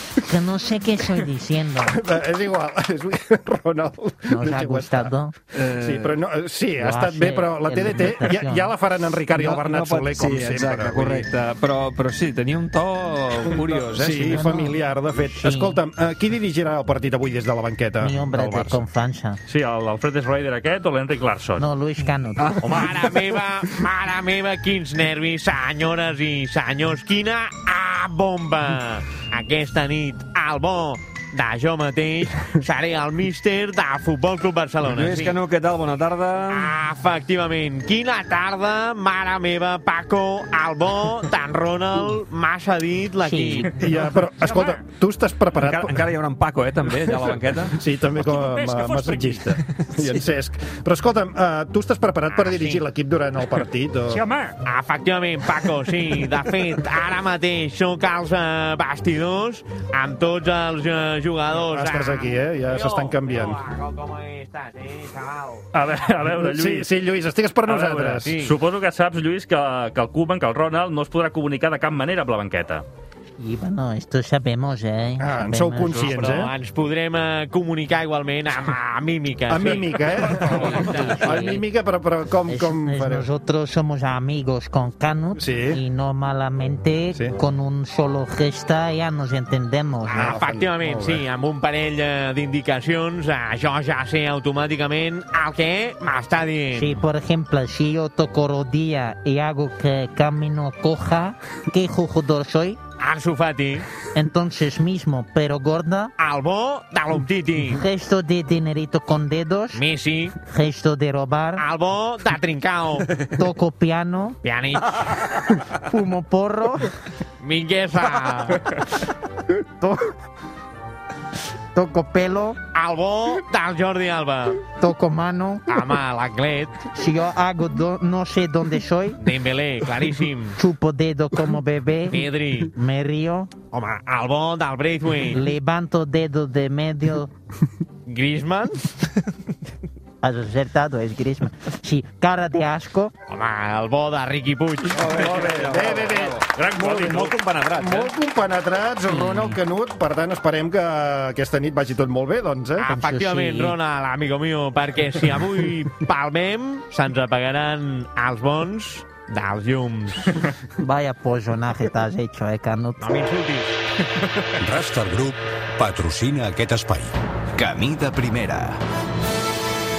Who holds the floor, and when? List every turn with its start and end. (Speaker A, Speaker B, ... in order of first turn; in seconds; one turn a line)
Speaker A: 0.2-2.0
Speaker B: 1.9-11.3
Speaker A: 4.3-5.3
Speaker C: 5.6-6.2
Speaker A: 6.8-8.7
Speaker C: 9.3-14.4
Speaker B: 13.6-18.8
Speaker A: 14.3-15.8
Speaker A: 18.0-19.4
Speaker D: 19.5-21.6
Speaker A: 21.6-22.7
Speaker D: 22.5-23.0
Speaker E: 22.6-35.4
Speaker C: 34.8-36.7
Speaker E: 36.5-43.7
Speaker A: 43.2-43.7
Speaker B: 43.8-46.1
Speaker D: 43.8-44.8
Speaker C: 45.6-47.7
Speaker B: 46.9-54.2
Speaker D: 48.2-49.5
Speaker E: 52.3-52.9
Speaker D: 54.1-54.6
Speaker E: 54.6-65.7
Speaker B: 61.5-63.6
Speaker D: 65.7-66.9
Speaker B: 66.3-68.3
Speaker D: 67.7-72.8
Speaker E: 68.2-68.5
Speaker A: 73.4-76.4
Speaker B: 75.2-76.5
Speaker E: 75.9-81.6
Speaker B: 79.5-83.3
Speaker A: 80.6-81.6
Speaker A: 82.5-90.3
Speaker B: 85.4-85.8
Speaker E: 90.1-96.9
Speaker B: 90.1-91.2
Speaker A: 96.7-102.8
Speaker E: 103.0-103.8
Speaker A: 104.1-106.1
Speaker E: 106.2-107.8
Speaker A: 107.7-109.8
Speaker E: 109.7-110.3
Speaker A: 110.4-111.7
Speaker E: 111.6-113.1
Speaker A: 113.3-114.4
Speaker E: 114.4-115.2
Speaker A: 115.7-116.9
Speaker E: 117.4-118.6
Speaker A: 119.8-120.1
Speaker A: 121.7-122.6
Speaker E: 122.7-124.6
Speaker A: 124.8-125.7
Speaker E: 125.7-126.8
Speaker A: 126.9-129.2
Speaker E: 129.2-130.6
Speaker A: 130.6-133.5
Speaker E: 132.1-132.7
Speaker E: 133.7-135.4
Speaker A: 135.3-137.3
Speaker E: 138.1-138.9
Speaker A: 140.2-143.1
Speaker E: 143.3-145.3
Speaker B: 145.0-152.9
Speaker C: 145.0-146.4
Speaker D: 146.5-147.4
Speaker A: 149.1-149.6
Speaker E: 152.8-160.4
Speaker A: 152.9-153.8
Speaker A: 160.8-163.2
Speaker E: 163.0-163.7
Speaker F: 164.6-168.8